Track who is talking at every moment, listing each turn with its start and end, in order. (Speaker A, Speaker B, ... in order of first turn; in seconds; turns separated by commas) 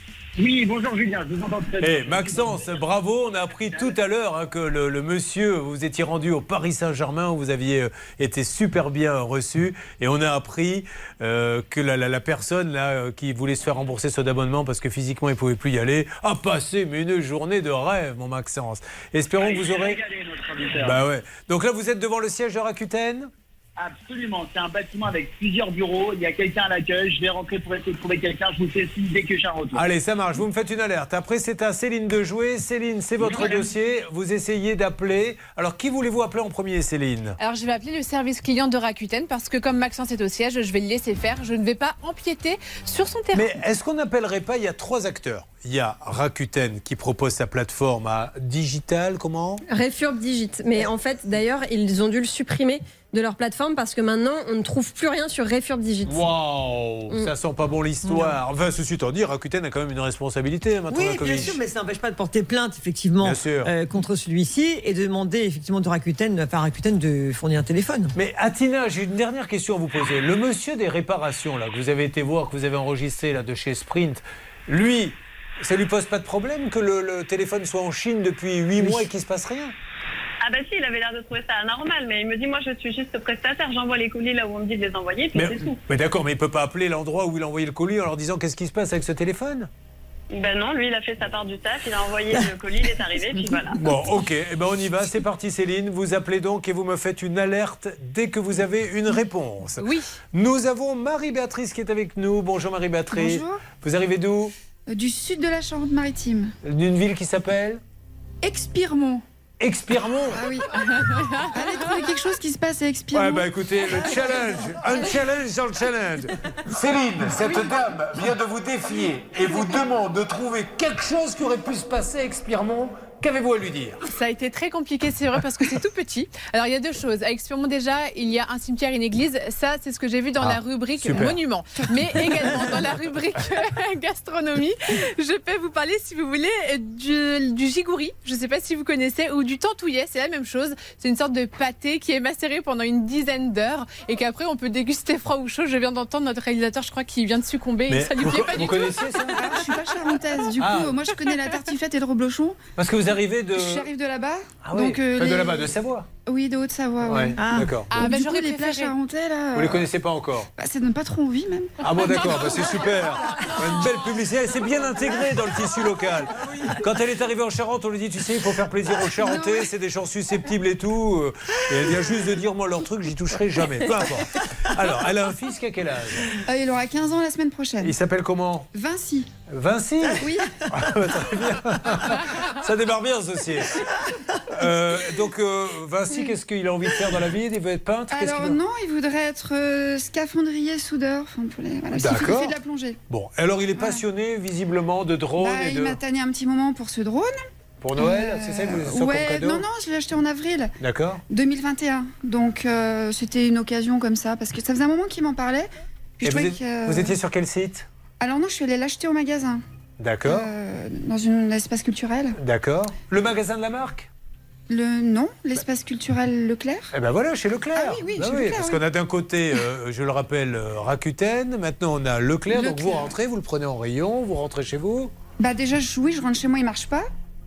Speaker A: 0.4-2.8, Speaker B: 1.8-20.0, Speaker A: 3.5-3.9, Speaker A: 19.4-21.0, Speaker B: 20.8-23.3, Speaker A: 23.8-29.8, Speaker B: 29.7-37.4, Speaker A: 33.2-33.7, Speaker C: 37.4-43.5, Speaker B: 43.3-49.6, Speaker D: 49.7-56.2, Speaker B: 56.0-61.6, Speaker E: 58.0-58.4, Speaker E: 60.9-68.1, Speaker B: 63.2-63.7, Speaker B: 68.1-79.7, Speaker F: 80.4-85.8, Speaker B: 85.3-89.7, Speaker F: 90.3-93.8, Speaker B: 93.8-104.5, Speaker C: 99.8-100.1, Speaker G: 103.1-103.6, Speaker G: 104.9-106.5, Speaker B: 106.6-107.8, Speaker G: 108.4-109.2, Speaker B: 109.6-110.4, Speaker G: 110.3-110.8, Speaker G: 111.5-114.2, Speaker B: 113.1-124.0, Speaker C: 124.1-149.3, Speaker B: 130.4-131.4, Speaker B: 147.9-149.5, Speaker G: 149.3-152.6, Speaker B: 150.6-151.1, Speaker B: 152.8-153.9, Speaker G: 153.5-155.7, Speaker B: 154.6-156.1, Speaker G: 156.2-159.9, Speaker B: 157.0-157.9, Speaker E: 157.4-157.7, Speaker C: 157.9-158.9, Speaker B: 159.5-160.5, Speaker G: 160.6-162.6, Speaker B: 161.8-176.4, Speaker G: 169.2-169.7, Speaker G: 176.4-177.9, Speaker B: 177.8-178.7, Speaker G: 178.7-179.3, Speaker B: 179.5-183.9, Speaker G: 180.2-180.6, Speaker B: 184.5-188.6, Speaker G: 188.1-193.0, Speaker B: 191.9-192.6, Speaker B: 193.1-196.0, Speaker G: 193.8-194.0, Speaker G: 195.4-197.3, Speaker B: 197.8-199.7, Speaker G: 198.0-200.7, Speaker B: 200.8-201.2, Speaker G: 201.3-207.2, Speaker B: 206.2-207.8, Speaker G: 208.2-209.6, Speaker B: 210.0-210.5, Speaker G: 210.2-212.4, Speaker B: 212.4-214.1, Speaker G: 214.7-216.9, Speaker B: 216.9-225.1, Speaker G: 217.7-218.8, Speaker G: 222.5-223.1, Speaker G: 225.4-227.1